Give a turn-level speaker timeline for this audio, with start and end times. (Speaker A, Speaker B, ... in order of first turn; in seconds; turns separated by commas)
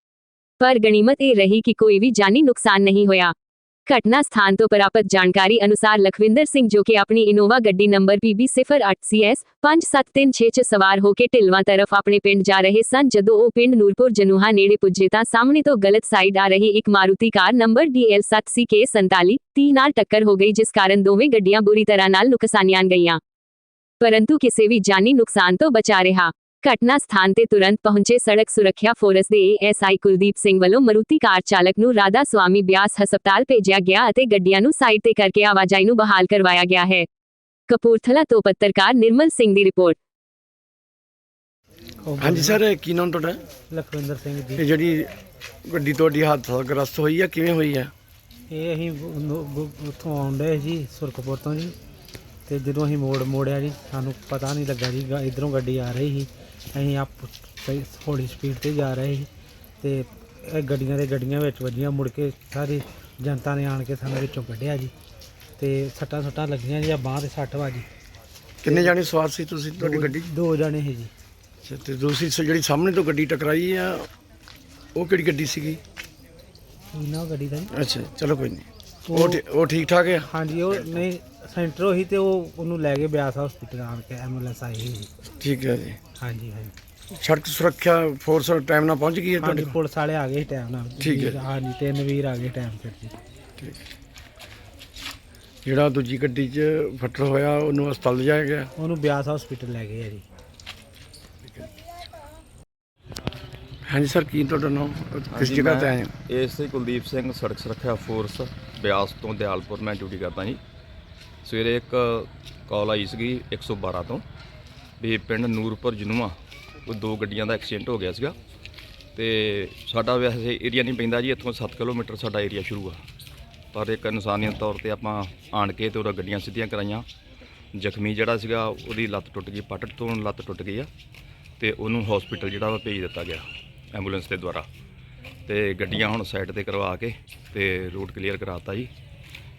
Speaker A: 0.6-3.3, Speaker A: 3.9-23.2, Speaker A: 24.0-37.1, Speaker A: 37.7-40.0, Speaker B: 42.0-42.6, Speaker C: 42.2-43.4, Speaker B: 43.7-44.6, Speaker C: 44.6-45.1, Speaker C: 45.6-47.9, Speaker B: 48.5-51.8, Speaker B: 52.5-59.3, Speaker B: 59.8-64.9, Speaker B: 65.6-67.9, Speaker C: 68.6-70.3, Speaker B: 68.7-68.9, Speaker B: 69.8-71.1, Speaker C: 71.6-74.1, Speaker C: 75.0-75.8, Speaker B: 76.9-77.7, Speaker C: 77.7-80.3, Speaker B: 79.0-79.4, Speaker B: 80.2-85.1, Speaker C: 85.4-86.0, Speaker B: 86.2-86.7, Speaker C: 87.1-89.8, Speaker B: 89.4-93.2, Speaker C: 91.0-91.4, Speaker C: 95.7-98.7, Speaker B: 98.8-100.3, Speaker C: 103.9-106.1, Speaker D: 105.3-110.6, Speaker D: 111.4-114.2, Speaker D: 115.0-116.3, Speaker D: 116.9-118.4, Speaker D: 119.2-123.0, Speaker D: 123.7-127.1, Speaker D: 127.7-130.9, Speaker D: 131.6-134.7, Speaker D: 135.5-138.9